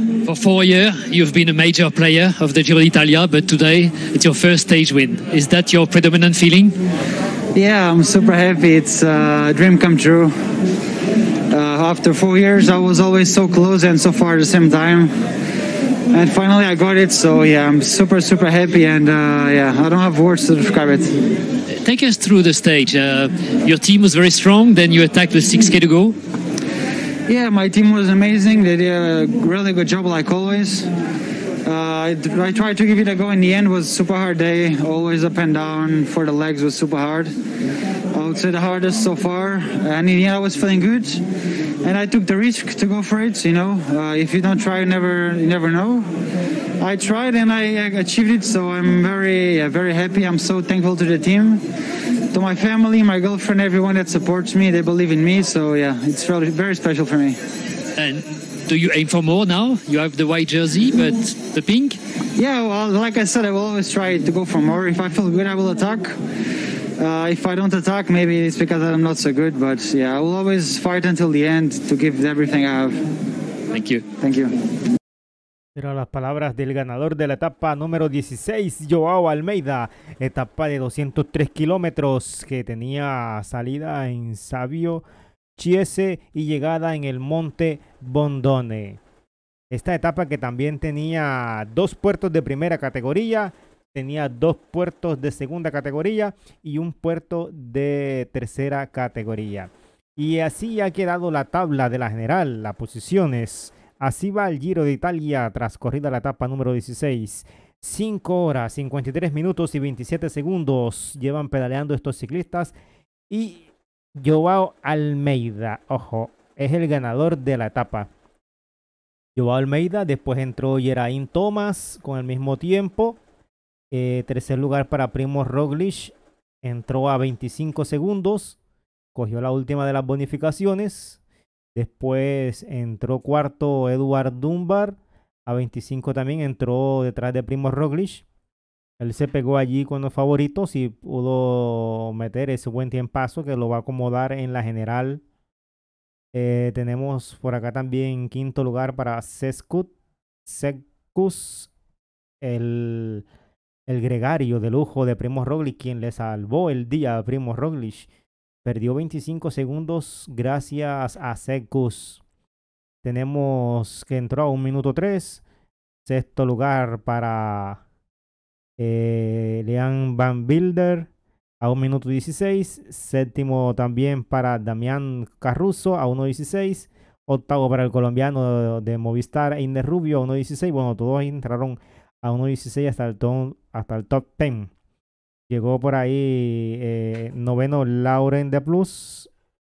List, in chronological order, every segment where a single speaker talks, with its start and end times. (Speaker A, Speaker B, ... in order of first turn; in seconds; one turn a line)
Speaker A: 0.2-6.7
Speaker B: 7.5-10.3
Speaker B: 11.5-15.1
Speaker B: 16.1-21.1
Speaker A: 21.8-26.2
Speaker B: 27.3-30.9
Speaker B: 31.6-37.3
Speaker B: 38.1-41.2
Speaker B: 41.8-46.1
Speaker B: 46.8-51.6
Speaker B: 52.3-57.4
Speaker A: 58.0-62.0
Speaker B: 62.3-66.1
Speaker B: 67.0-73.0
Speaker A: 73.7-74.0
Speaker B: 74.2-74.5
Speaker C: 75.7-89.0
Speaker C: 89.7-112.7
Speaker C: 113.3-118.1
Speaker C: 119.3-123.2
Speaker C: 123.9-128.6
Speaker C: 129.1-131.2
Speaker C: 131.7-138.2
Speaker C: 139.0-145.2
Speaker C: 146.3-149.9
Speaker C: 150.4-151.7
Speaker C: 152.4-153.3
Speaker C: 153.9-158.1
Speaker C: 158.6-162.2
Speaker C: 163.0-165.4
Speaker C: 166.0-167.8
Speaker C: 168.8-171.1
Speaker C: 171.6-184.7
Speaker C: 185.5-189.3